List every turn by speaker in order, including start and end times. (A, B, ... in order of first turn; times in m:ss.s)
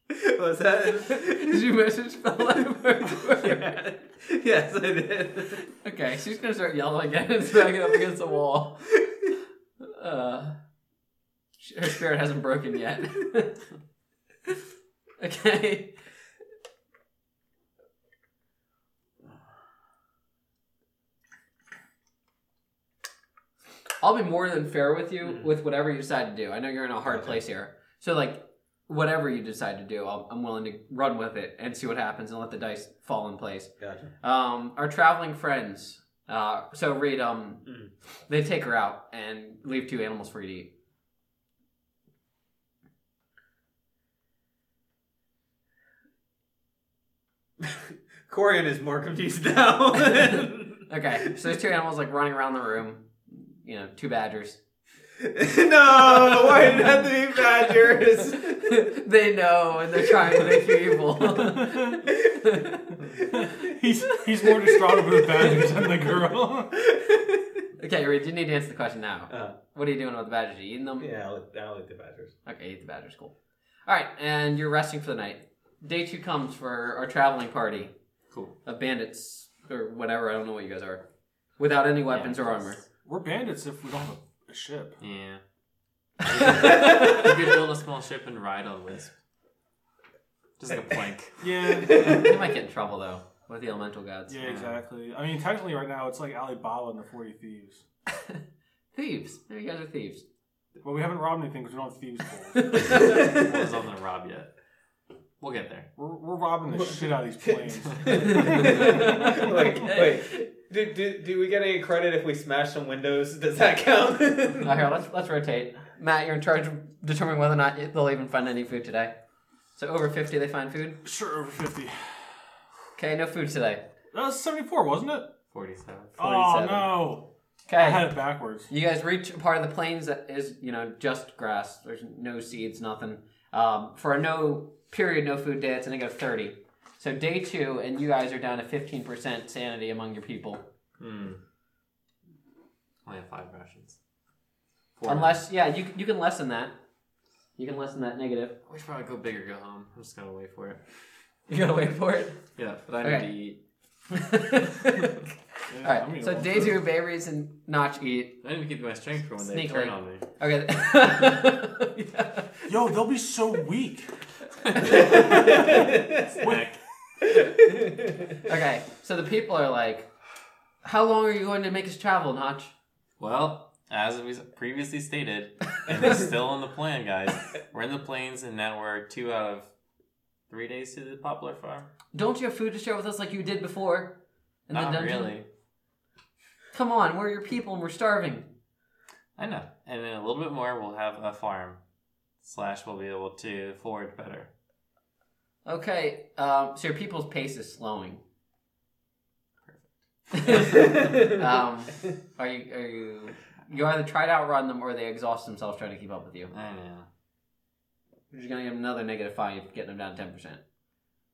0:00.1-0:01.6 A
0:01.0-0:03.6 B
0:03.1-0:05.6 A
0:05.6-0:08.9 B
0:09.8-0:10.6 B
0:11.6-0:13.6 B
0:15.2-0:16.0 B
0:24.0-0:37.7 B
0:27.0-0:27.4 A
0:33.8-0:34.1 A
0:37.6-0:37.9 A
0:38.3-0:40.7 B
0:47.6-0:50.9 A
0:50.7-0:54.6 B
0:55.2-0:58.7 A
0:58.4-1:03.0 B
1:00.2-1:00.9 A
1:01.4-1:02.0 C
1:02.1-1:02.4 A
1:03.1-1:03.6 A
1:03.5-1:06.8 C
1:04.1-1:04.5 B
1:07.0-1:07.4 A
1:07.8-1:11.1 B
1:09.3-1:09.6 A
1:11.0-1:12.4 A
1:12.4-1:18.0 B
1:18.3-1:18.6 D
1:18.6-1:21.1 B
1:21.6-1:22.8 B
1:22.1-1:22.9 D
1:23.0-1:25.0 C
1:25.0-1:25.4 D
1:26.2-1:29.2 D
1:30.6-1:32.0 D
1:31.4-1:32.4 C
1:31.9-1:34.5 B
1:34.3-1:37.8 C
1:34.4-1:34.8 D
1:38.9-1:40.2 B
1:40.8-1:43.0 C
1:42.6-1:43.2 B
1:43.1-1:44.5 D
1:45.4-1:45.9 D
1:46.0-1:49.1 C
1:46.8-1:54.8 A
1:48.6-1:50.4 B
1:54.6-1:59.1 B
1:59.8-2:01.0 B
2:01.0-2:02.4 C
2:03.0-2:03.8 B
2:04.1-2:05.3 C
2:05.5-2:06.2 D
2:06.2-2:08.7 C
2:06.2-2:07.0 B
2:07.7-2:08.1 B
2:08.6-2:20.7 B
2:21.0-2:21.4 D
2:23.0-2:24.0 D
2:25.0-2:25.4 D
2:25.0-2:26.8 B
2:27.6-2:28.6 B
2:28.7-2:30.8 D
2:31.5-2:32.5 B
2:32.6-2:33.6 D
2:33.0-2:33.3 B
2:34.1-2:35.2 B
2:35.7-2:36.8 C
2:35.8-2:38.4 B
2:38.4-2:40.2 D
2:39.4-2:42.7 B
2:42.7-2:44.1 C
2:44.7-2:46.8 D
2:44.9-2:45.8 C
2:45.4-2:46.0 A
2:47.4-2:48.2 A
2:48.4-2:50.1 B
2:50.8-2:52.7 B
2:53.2-2:59.7 D
3:00.5-3:01.9 D
3:02.1-3:05.3 B
3:04.7-3:05.4 D
3:06.7-3:08.5 B
3:09.4-3:11.8 D
3:12.4-3:14.5 D
3:15.6-3:18.2 B
3:19.6-3:21.0 D
3:20.3-3:26.5 B
3:26.5-3:27.1 D
3:28.3-3:30.6 B